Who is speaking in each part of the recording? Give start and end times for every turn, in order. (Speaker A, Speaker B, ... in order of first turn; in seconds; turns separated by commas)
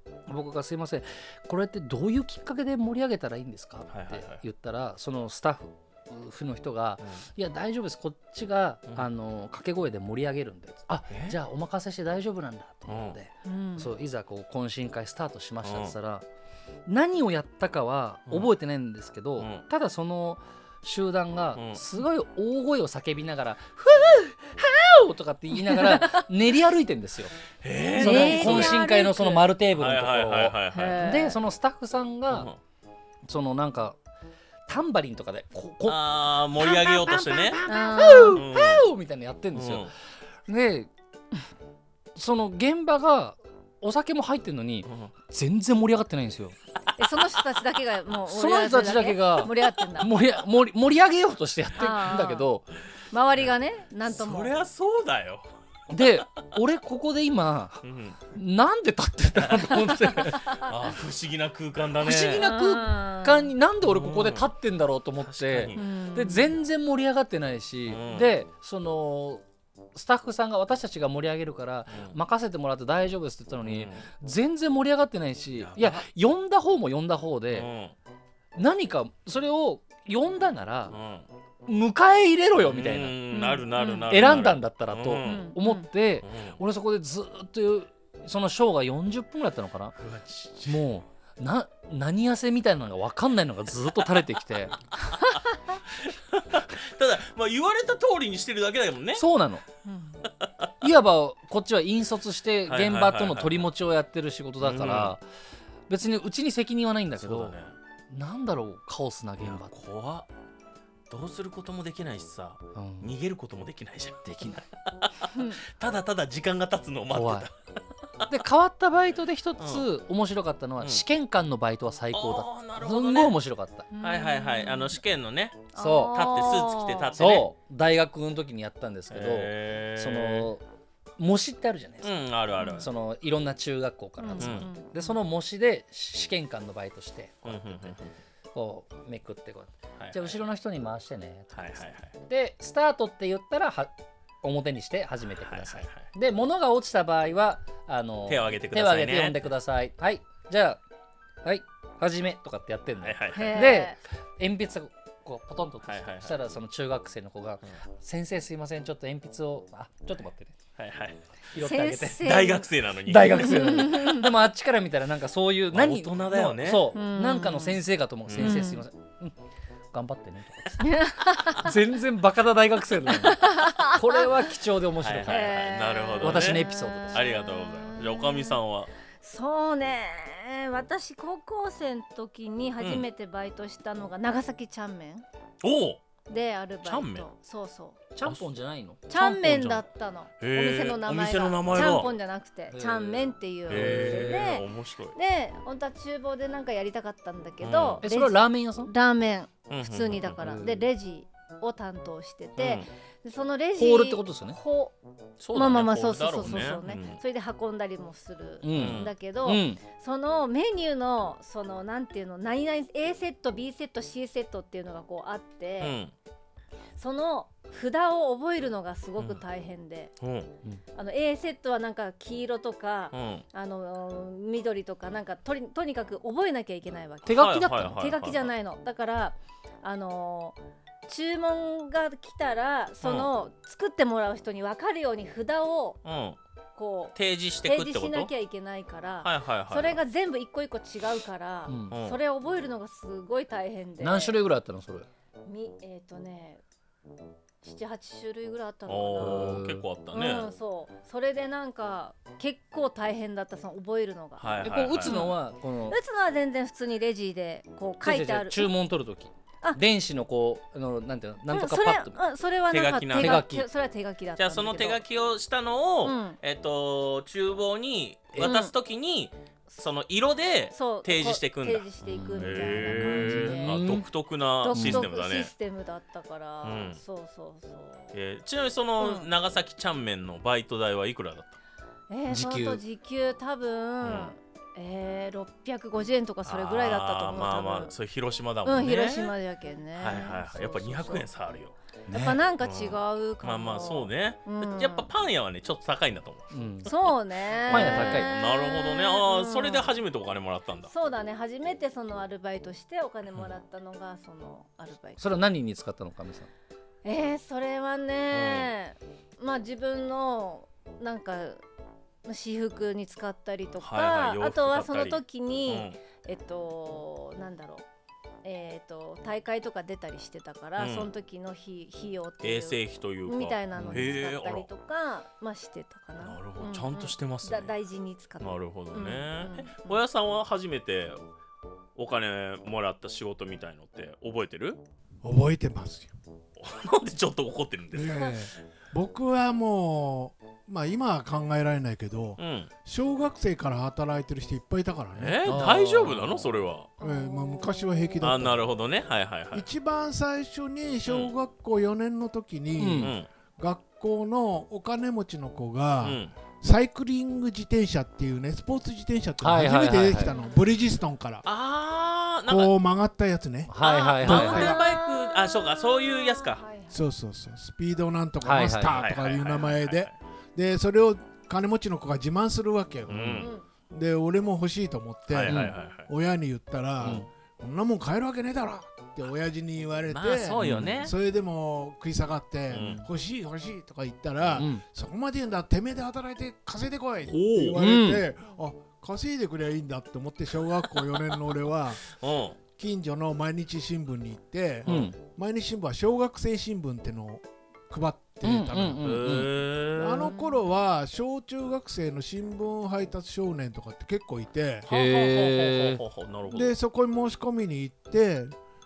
Speaker A: 0.3-16.2, Speaker B: 3.9-4.4, Speaker B: 11.1-11.4, Speaker B: 12.9-13.2, Speaker C: 13.4-13.9, Speaker B: 15.6-15.9, Speaker A: 16.9-27.4, Speaker B: 19.4-19.6, Speaker B: 21.5-21.8, Speaker C: 25.6-26.2, Speaker B: 27.6-28.8, Speaker A: 27.9-32.5, Speaker C: 28.0-29.5, Speaker B: 29.7-31.0, Speaker C: 30.7-31.4, Speaker B: 32.3-32.6, Speaker A: 33.2-34.0, Speaker A: 34.7-39.9, Speaker B: 35.8-37.6, Speaker C: 37.7-38.4, Speaker B: 38.3-38.9, Speaker B: 39.5-39.9, Speaker A: 40.5-40.9, Speaker A: 42.1-46.6, Speaker B: 44.9-45.1, Speaker C: 47.0-50.1, Speaker A: 48.3-52.6, Speaker C: 51.8-52.5, Speaker C: 53.1-54.5, Speaker B: 54.0-55.5, Speaker A: 55.9-60.6, Speaker B: 57.8-58.2, Speaker B: 59.3-62.5, Speaker A: 62.0-77.7, Speaker C: 62.4-63.5, Speaker B: 63.8-64.5, Speaker B: 65.2-65.8, Speaker C: 65.7-66.5, Speaker B: 67.9-68.3, Speaker B: 71.9-72.1, Speaker B: 73.6-74.0, Speaker B: 75.6-76.0, Speaker B: 77.5-77.9, Speaker A: 78.5-80.9, Speaker B: 80.9-81.3, Speaker A: 81.7-83.2, Speaker B: 82.5-85.5, Speaker C: 83.3-84.4, Speaker A: 84.1-89.9, Speaker C: 85.2-85.9, Speaker B: 86.2-86.6, Speaker B: 90.0-90.9, Speaker A: 90.7-94.8, Speaker B: 96.0-99.2, Speaker A: 99.1-99.6, Speaker C: 99.8-100.2, Speaker B: 100.4-100.7, Speaker A: 100.8-105.2, Speaker B: 102.7-103.7, Speaker B: 104.6-105.2, Speaker A: 105.9-107.5, Speaker B: 107.2-107.7, Speaker A: 108.1-109.7, Speaker B: 109.4-110.3, Speaker B: 111.1-117.5, Speaker A: 112.7-113.1, Speaker C: 115.3-115.6, Speaker A: 117.1-117.5, Speaker A: 118.3-123.9, Speaker B: 119.6-119.9, Speaker B: 122.1-123.4, Speaker C: 123.9-125.0, Speaker B: 124.0-127.5, Speaker C: 125.7-127.2, Speaker A: 125.8-126.3, Speaker A: 127.2-130.6, Speaker B: 129.1-130.5, Speaker A: 131.2-132.2, Speaker B: 132.0-132.9, Speaker C: 132.6-132.9, Speaker A: 132.8-137.9, Speaker C: 134.2-135.2, Speaker B: 134.4-134.7, Speaker B: 137.4-138.1, Speaker A: 138.5-143.9, Speaker B: 140.0-140.4, Speaker B: 141.5-142.1, Speaker A: 144.4-150.8, Speaker B: 145.4-146.0, Speaker B: 148.3-149.5, Speaker A: 151.4-160.5, Speaker B: 153.0-153.8, Speaker C: 153.3-154.0, Speaker B: 155.8-156.4, Speaker B: 160.8-161.5, Speaker A: 161.5-162.5, Speaker C: 161.6-162.7, Speaker B: 162.2-164.0, Speaker A: 163.1-169.3, Speaker C: 163.6-164.3, Speaker B: 165.7-166.9, Speaker C: 166.9-167.8, Speaker B: 168.3-168.7, Speaker C: 168.4-168.8, Speaker A: 169.9-170.8, Speaker C: 170.8-171.7, Speaker A: 171.5-175.7, Speaker C: 173.2-174.1, Speaker B: 175.0-178.9, Speaker C: 175.3-178.6, Speaker A: 176.2-177.2, Speaker C: 179.1-185.2, Speaker B: 182.8-183.1, Speaker B: 185.6-186.0, Speaker C: 186.3-188.0, Speaker B: 186.8-187.3, Speaker A: 188.1-189.1, Speaker C: 189.1-204.9, Speaker B: 189.1-189.9, Speaker B: 190.4-192.1, Speaker A: 192.7-194.5, Speaker B: 193.7-195.2, Speaker B: 197.6-198.1, Speaker A: 198.0-198.9, Speaker B: 199.7-200.5, Speaker A: 200.4-200.9, Speaker B: 202.6-202.9, Speaker A: 203.7-204.6, Speaker B: 205.4-207.2, Speaker C: 205.5-215.9, Speaker A: 208.6-209.8, Speaker B: 208.7-209.1, Speaker B: 215.8-216.1, Speaker C: 216.9-220.1, Speaker B: 219.2-219.4, Speaker B: 220.2-220.5, Speaker C: 220.9-236.0, Speaker B: 223.1-223.4, Speaker A: 227.2-227.9, Speaker B: 227.3-228.5, Speaker B: 233.0-233.3, Speaker B: 236.0-236.4, Speaker C: 236.8-244.4, Speaker B: 237.1-238.3, Speaker B: 239.2-239.9, Speaker A: 241.7-242.0, Speaker B: 241.9-242.2, Speaker A: 244.0-245.1, Speaker C: 245.4-246.6, Speaker C: 247.6-249.5, Speaker B: 248.9-250.5, Speaker A: 249.2-249.8, Speaker C: 250.1-258.7, Speaker B: 254.4-255.4, Speaker A: 254.6-256.0, Speaker A: 258.0-262.2, Speaker C: 261.5-265.0, Speaker B: 262.7-263.4, Speaker A: 263.2-263.6, Speaker B: 264.4-275.5, Speaker C: 266.0-266.4, Speaker C: 268.4-268.7, Speaker C: 270.7-273.8, Speaker A: 272.1-274.1, Speaker C: 274.6-278.1, Speaker A: 274.7-275.1, Speaker B: 276.6-277.0, Speaker B: 278.1-281.6, Speaker C: 279.0-279.3, Speaker C: 282.1-287.9, Speaker A: 282.2-282.8, Speaker B: 284.0-284.3, Speaker B: 286.4-289.3, Speaker C: 288.6-291.3, Speaker B: 289.9-291.7, Speaker A: 292.1-292.4, Speaker C: 292.1-295.1, Speaker B: 292.6-300.9, Speaker A: 296.5-296.9, Speaker C: 296.9-300.0, Speaker A: 297.7-298.3, Speaker C: 300.9-305.4, Speaker A: 305.2-306.5, Speaker C: 307.0-311.6, Speaker B: 308.3-308.7, Speaker C: 312.2-317.8, Speaker B: 313.8-316.0, Speaker C: 318.4-330.0, Speaker B: 320.8-321.1, Speaker B: 322.4-324.7, Speaker A: 323.8-324.2, Speaker B: 326.2-327.7, Speaker B: 328.4-331.2, Speaker B: 331.9-334.8, Speaker D: 335.2-336.1, Speaker B: 336.6-338.2, Speaker D: 337.9-345.6, Speaker B: 342.4-342.7, Speaker B: 345.1-346.9, Speaker A: 345.4-346.5, Speaker D: 347.0-348.7, Speaker C: 347.0-347.9, Speaker B: 348.2-349.7, Speaker D: 349.5-361.4, Speaker B: 351.1-351.3, Speaker A: 352.8-353.1, Speaker B: 353.0-353.3, Speaker B: 356.0-356.3, Speaker A: 359.4-360.3, Speaker C: 360.2-360.6, Speaker B: 361.4-362.7, Speaker D: 362.5-363.7, Speaker A: 363.7-364.8, Speaker C: 363.8-365.8, Speaker B: 363.9-366.6, Speaker D: 364.2-364.8, Speaker C: 366.4-367.0, Speaker D: 366.9-392.1, Speaker A: 368.4-369.0, Speaker B: 368.9-370.1, Speaker B: 373.1-373.5, Speaker A: 373.1-373.4, Speaker C: 373.4-373.6, Speaker B: 375.3-376.1, Speaker A: 375.5-375.8, Speaker A: 377.0-377.3, Speaker B: 380.1-381.1, Speaker A: 380.6-381.1, Speaker B: 382.7-383.0, Speaker A: 382.8-383.1, Speaker A: 384.6-384.8, Speaker B: 387.2-387.8, Speaker A: 387.8-388.2, Speaker B: 392.2-392.6, Speaker D: 392.7-399.1, Speaker A: 394.9-395.1, Speaker A: 398.4-399.5, Speaker B: 399.0-400.3, Speaker D: 399.9-404.9, Speaker C: 400.2-400.6, Speaker B: 404.9-406.8, Speaker A: 404.9-406.0, Speaker D: 406.5-408.5